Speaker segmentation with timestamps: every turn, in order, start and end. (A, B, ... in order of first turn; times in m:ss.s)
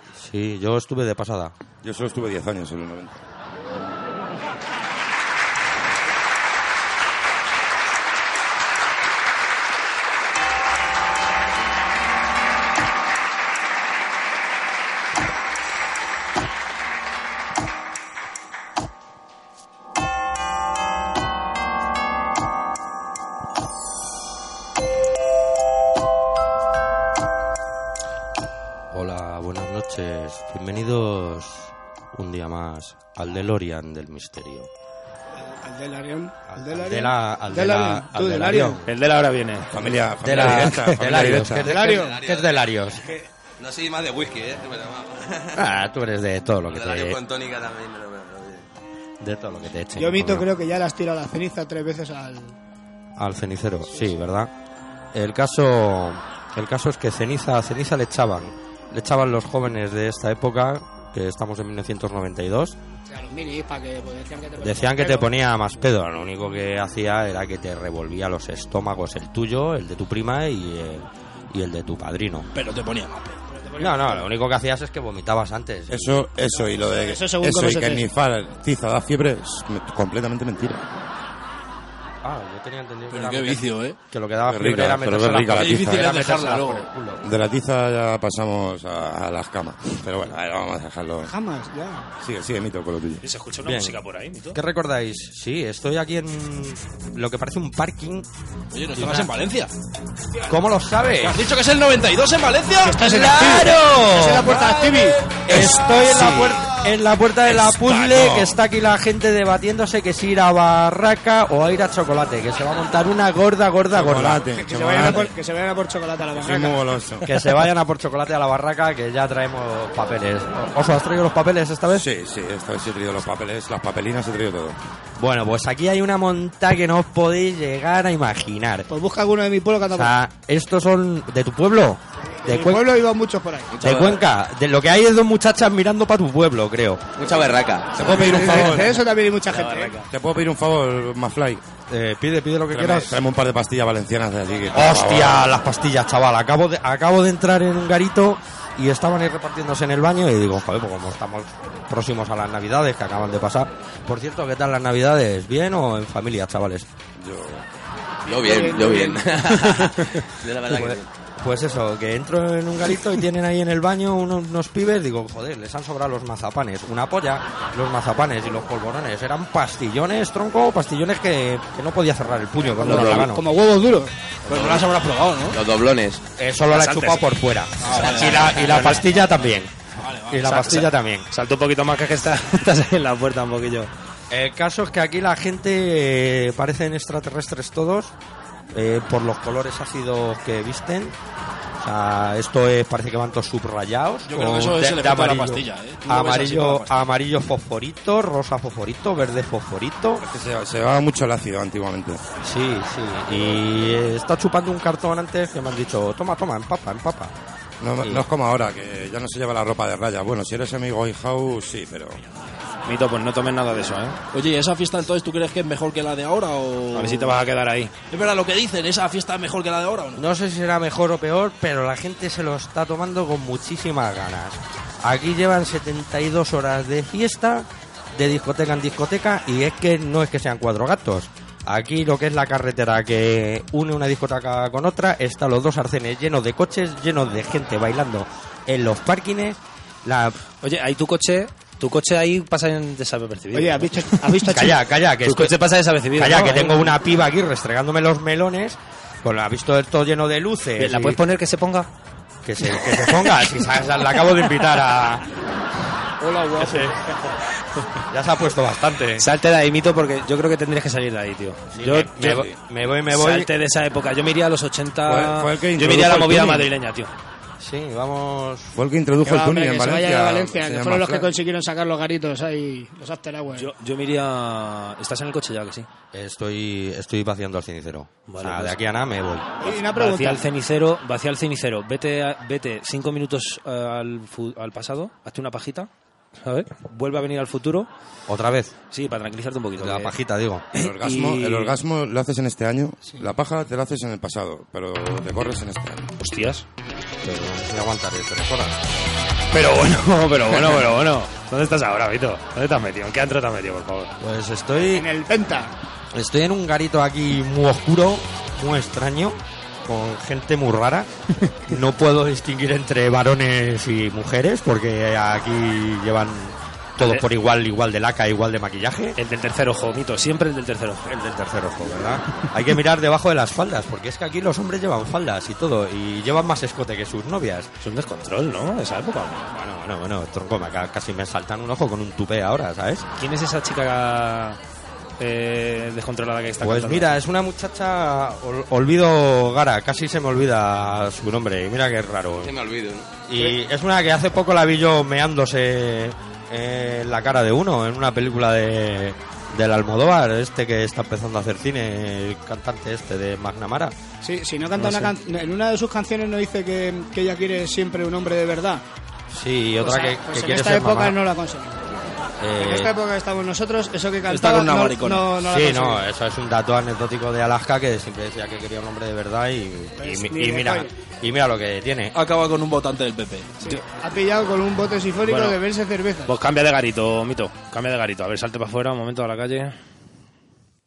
0:00.2-0:01.6 A
0:01.8-0:03.2 B
0:28.9-0:34.7 A
0:35.4-0:38.8 C
0:36.5-0:38.9 A
0:38.9-0:39.7 D
0:39.7-0:41.7 B
0:40.2-0:43.0 A
0:40.3-0:41.0 D
0:41.6-0:42.2 C
0:41.9-0:42.6 E
0:43.6-0:45.6 E
0:45.5-0:47.2 A
0:46.7-0:48.6 E
0:49.2-0:50.5 A
0:50.0-0:52.6 C
0:53.2-0:54.5 A
0:55.1-1:02.8 A
1:03.1-1:05.3 C
1:04.6-1:12.5 A
1:12.5-1:13.4 F
1:13.5-1:14.3 C
1:13.8-1:16.2 A
1:15.9-1:20.8 B
1:16.5-1:18.1 C
1:22.2-1:27.2 A
1:23.1-1:24.0 F
1:24.5-1:26.1 B
1:25.5-1:26.9 F
1:27.2-1:31.3 B
1:31.2-1:32.1 C
1:32.2-1:33.2 B
1:33.2-1:34.6 D
1:33.6-1:34.0 A
1:34.5-1:38.3 A
1:38.7-1:39.7 F
1:39.0-1:39.3 A
1:40.5-1:41.4 A
1:41.2-1:43.6 F
1:42.8-1:45.4 C
1:43.0-1:44.6 A
1:44.5-1:46.8 F
1:45.5-1:54.4 A
1:48.0-1:48.6 B
1:53.9-1:55.3 B
1:54.5-1:56.9 C
1:56.4-1:57.3 B
1:57.3-2:02.1 A
2:02.0-2:04.8 B
2:05.2-2:08.9 A
2:08.9-2:10.1 C
2:09.9-2:12.9 A
2:12.3-2:13.7 C
2:13.7-2:14.2 E
2:13.8-2:17.1 A
2:17.2-2:18.0 E
2:18.0-2:19.0 B
2:18.0-2:20.0 C
2:19.5-2:20.0 E
2:20.1-2:21.6 B
2:21.9-2:23.2 A
2:22.7-2:25.6 B
2:24.7-2:36.9 A
2:37.2-2:37.6 B
2:38.3-2:39.2 C
2:38.3-2:41.1 E
2:40.7-2:53.4 A
2:52.7-2:54.2 C
2:54.5-2:55.6 F
2:54.5-2:54.8 E
2:55.5-2:56.2 E
2:56.4-2:59.8 A
2:56.7-2:57.3 D
2:57.8-2:58.8 F
2:57.9-2:59.2 D
3:00.0-3:00.7 F
3:00.3-3:01.3 A
3:00.4-3:03.9 D
3:04.3-3:08.1 A
3:08.7-3:11.2 A
3:11.8-3:20.2 A
3:14.3-3:17.0 F
3:20.2-3:22.2 B
3:22.4-3:27.3 A
3:27.8-3:32.2 B
3:32.9-3:34.2 D
3:34.3-3:37.4 F
3:36.9-3:37.9 D
3:38.1-3:40.2 F
3:40.2-4:00.4 A
4:00.6-4:04.4 D
4:03.5-4:04.8 C
4:04.4-4:05.6 A
4:05.2-4:06.9 D
4:06.1-4:11.2 A
4:10.8-4:11.9 D
4:12.4-4:15.3 A
4:12.8-4:13.1 D
4:16.2-4:16.9 C
4:16.6-4:17.0 A
4:18.1-4:19.3 A
4:19.2-4:22.5 D
4:21.7-4:23.5 A
4:23.1-4:27.1 D
4:25.0-4:26.7 B
4:27.6-4:28.8 A
4:28.8-4:31.3 B
4:29.2-4:33.7 C
4:33.5-4:35.9 D
4:36.1-4:39.5 A
4:38.3-4:38.8 D
4:39.6-4:40.4 C
4:39.7-4:45.9 D
4:46.4-4:47.9 D
4:48.3-4:48.8 A
4:48.9-4:50.2 D
4:49.8-4:50.7 A
4:50.7-4:51.8 D
4:50.8-4:56.1 B
4:56.2-4:56.6 D
4:57.2-4:58.8 A
4:59.5-5:04.2 D
5:04.2-5:05.1 A
5:04.9-5:05.7 C
5:06.1-5:11.1 A
5:11.6-5:19.2 A
5:17.0-5:17.3 D
5:19.2-5:21.0 D
5:21.0-5:27.7 A
5:27.8-5:29.5 D
5:29.5-5:33.1 A
5:33.2-5:34.6 D
5:35.2-5:37.2 D
5:36.6-5:42.6 A
5:42.4-5:43.1 E
5:43.3-5:54.0 A
5:54.2-5:58.8 C
5:54.8-5:55.1 D
5:59.3-6:01.2 A
5:59.8-6:02.0 C
6:02.4-6:02.9 A
6:02.6-6:06.0 C
6:04.3-6:05.3 F
6:05.4-6:12.2 A
6:10.0-6:10.9 C
6:12.1-6:13.6 F
6:13.6-6:16.3 C
6:15.2-6:15.6 D
6:16.3-6:19.8 D